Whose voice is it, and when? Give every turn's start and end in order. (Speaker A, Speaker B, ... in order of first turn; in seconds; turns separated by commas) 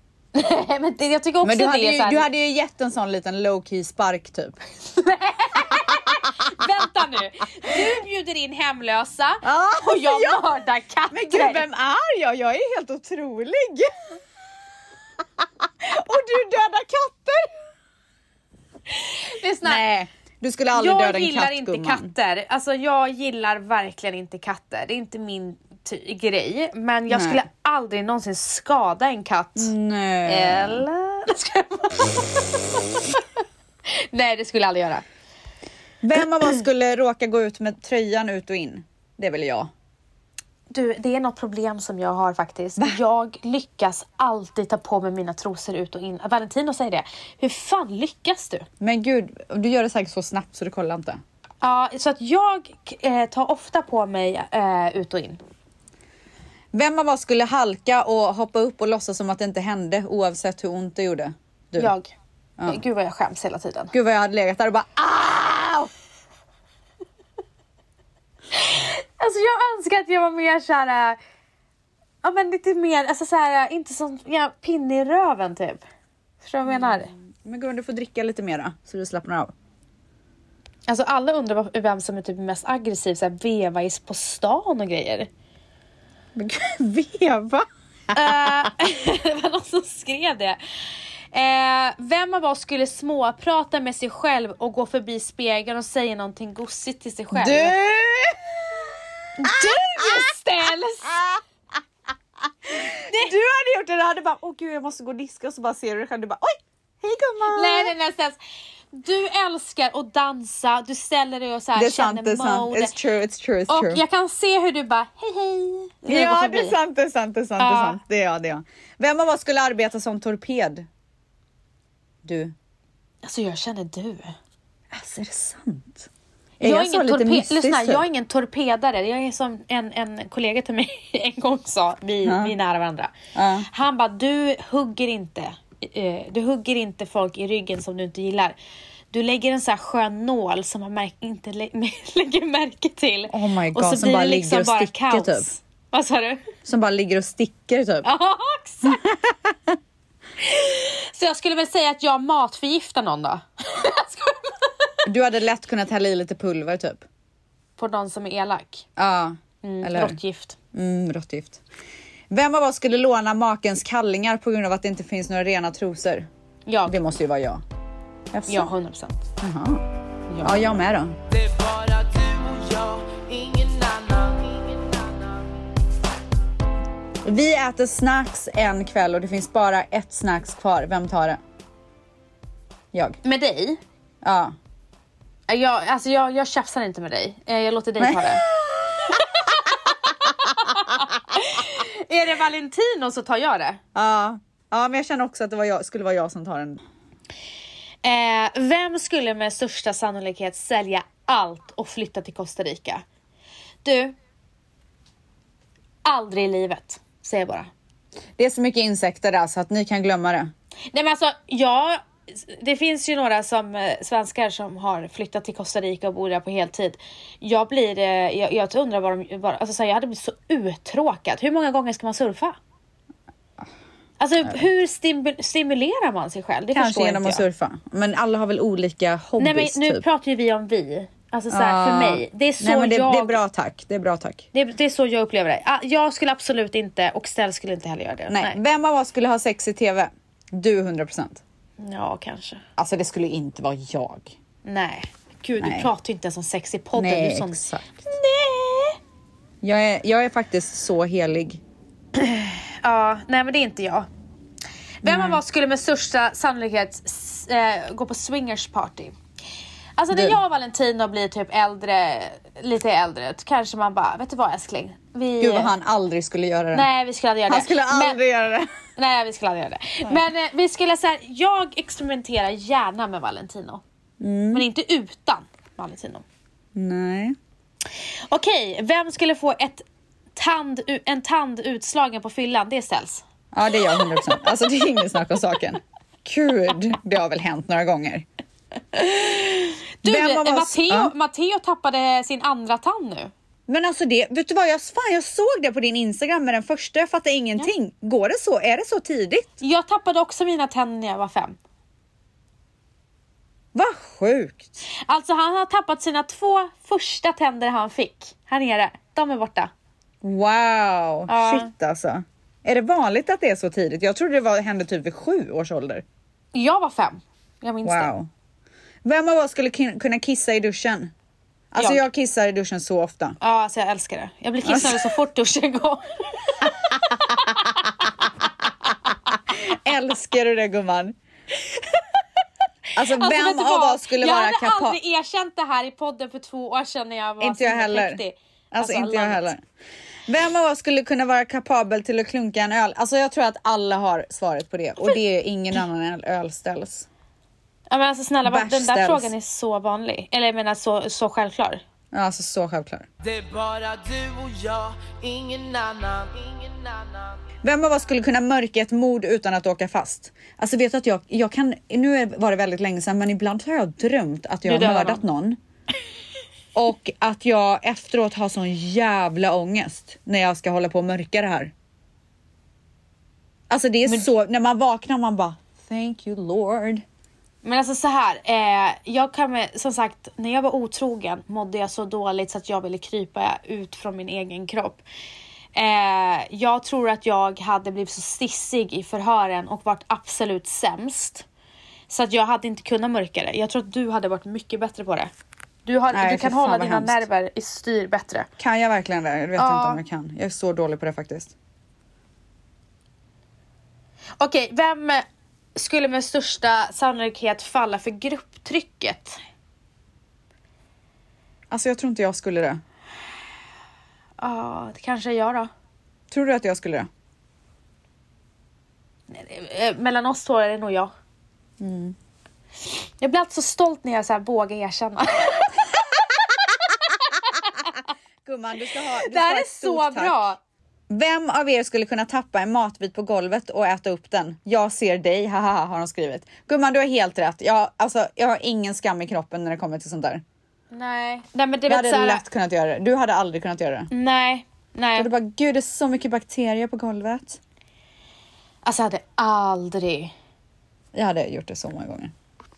Speaker A: 0.3-2.3, Speaker B: 1.4-4.6, Speaker A: 4.8-11.6, Speaker B: 9.4-10.5, Speaker B: 11.1-13.9, Speaker B: 15.8-17.5, Speaker A: 18.9-19.8, Speaker B: 19.6-22.1, Speaker A: 20.7-29.7, Speaker B: 27.1-27.4, Speaker B: 29.6-30.9, Speaker A: 30.2-32.6, Speaker A: 33.9-35.0, Speaker B: 36.0-39.7, Speaker A: 40.7-48.7, Speaker B: 48.8-51.2, Speaker A: 51.6-55.4, Speaker B: 56.7-61.9, Speaker A: 61.8-62.1, Speaker A: 62.7-63.9, Speaker B: 63.9-65.9, Speaker A: 68.5-71.2, Speaker A: 72.2-75.8, Speaker A: 76.4-77.1, Speaker B: 76.7-79.5, Speaker A: 80.9-85.3, Speaker B: 86.4-88.3, Speaker A: 88.1-90.6, Speaker A: 91.3-97.8, Speaker B: 97.3-98.5, Speaker A: 99.4-101.1, Speaker B: 99.5-100.2, Speaker B: 102.7-107.9, Speaker A: 103.1-103.3, Speaker A: 107.5-108.4, Speaker A: 108.9-112.9, Speaker B: 111.8-114.0, Speaker A: 113.7-116.8, Speaker B: 116.1-120.9, Speaker A: 117.6-118.0, Speaker B: 122.2-122.5, Speaker A: 123.2-124.3, Speaker B: 124.9-126.1, Speaker B: 126.6-128.0, Speaker A: 126.6-138.6, Speaker B: 132.2-132.5, Speaker B: 133.3-133.7, Speaker A: 139.1-146.4, Speaker B: 143.3-145.5, Speaker B: 146.7-148.1, Speaker A: 148.0-149.0, Speaker B: 148.8-149.8, Speaker A: 150.4-154.9, Speaker B: 155.1-157.1, Speaker A: 157.8-158.9, Speaker B: 159.0-160.2, Speaker A: 159.6-160.6, Speaker B: 160.7-161.6, Speaker B: 162.3-166.3, Speaker A: 166.7-167.0, Speaker B: 166.9-167.6, Speaker B: 168.3-168.7, Speaker A: 168.5-169.3, Speaker B: 169.4-169.8, Speaker A: 170.3-170.8, Speaker B: 170.4-171.2, Speaker C: 171.3-175.5, Speaker B: 177.2-181.4, Speaker B: 182.9-183.2, Speaker A: 183.2-183.8, Speaker B: 184.2-184.6, Speaker A: 185.5-188.4, Speaker B: 188.0-189.7, Speaker A: 189.1-193.8, Speaker B: 193.9-196.8, Speaker A: 198.0-203.1, Speaker A: 203.8-204.2, Speaker A: 206.0-207.7, Speaker B: 208.4-210.5, Speaker A: 210.9-222.6, Speaker A: 224.2-227.4, Speaker B: 226.7-230.0, Speaker A: 229.4-233.4, Speaker B: 231.5-234.5, Speaker A: 234.5-238.6, Speaker B: 238.3-241.4, Speaker A: 241.8-242.6, Speaker B: 242.8-244.4, Speaker A: 244.7-249.0, Speaker B: 245.6-245.9, Speaker B: 247.0-247.9, Speaker B: 249.6-251.6, Speaker A: 252.1-254.1, Speaker B: 255.0-255.4, Speaker A: 255.0-259.2, Speaker A: 260.0-265.7, Speaker B: 260.1-260.4, Speaker B: 265.4-266.9, Speaker A: 266.7-268.2, Speaker B: 267.5-268.7, Speaker A: 269.0-273.8, Speaker B: 274.2-274.6, Speaker A: 274.5-276.2, Speaker B: 276.8-277.4, Speaker A: 278.3-283.2, Speaker B: 283.5-288.3, Speaker B: 288.9-291.1, Speaker A: 290.0-293.3, Speaker B: 293.7-299.5, Speaker A: 299.6-301.6, Speaker B: 303.7-304.8, Speaker A: 305.1-309.7, Speaker B: 310.2-316.0, Speaker A: 311.3-311.7, Speaker A: 316.5-318.1, Speaker B: 317.8-318.3, Speaker B: 319.0-321.1, Speaker B: 321.7-323.4, Speaker A: 321.8-322.0, Speaker A: 323.4-328.1, Speaker B: 324.6-325.1, Speaker B: 329.5-331.2, Speaker B: 332.9-335.0, Speaker A: 333.1-339.5, Speaker B: 337.4-338.2, Speaker B: 338.7-339.6, Speaker B: 340.3-347.1, Speaker A: 347.9-351.8, Speaker B: 348.4-349.3, Speaker B: 352.1-353.1, Speaker C: 353.2-357.4, Speaker B: 357.6-365.6, Speaker A: 364.6-365.2, Speaker B: 366.7-371.7, Speaker B: 373.7-377.0, Speaker A: 377.6-385.0, Speaker A: 385.8-391.5, Speaker A: 392.1-395.3, Speaker A: 395.9-398.5, Speaker B: 396.1-397.3, Speaker B: 398.6-401.5, Speaker A: 399.6-400.0, Speaker A: 404.4-409.4, Speaker B: 411.7-412.8, Speaker A: 414.4-415.7, Speaker B: 416.3-417.1, Speaker A: 419.3-421.1, Speaker B: 421.8-422.1, Speaker A: 423.2-427.1, Speaker B: 428.4-430.4, Speaker A: 429.1-430.6, Speaker B: 431.1-440.4, Speaker A: 440.9-442.4, Speaker B: 441.9-444.1, Speaker A: 444.1-445.3, Speaker B: 445.2-447.6, Speaker A: 448.8-450.3, Speaker B: 451.1-452.3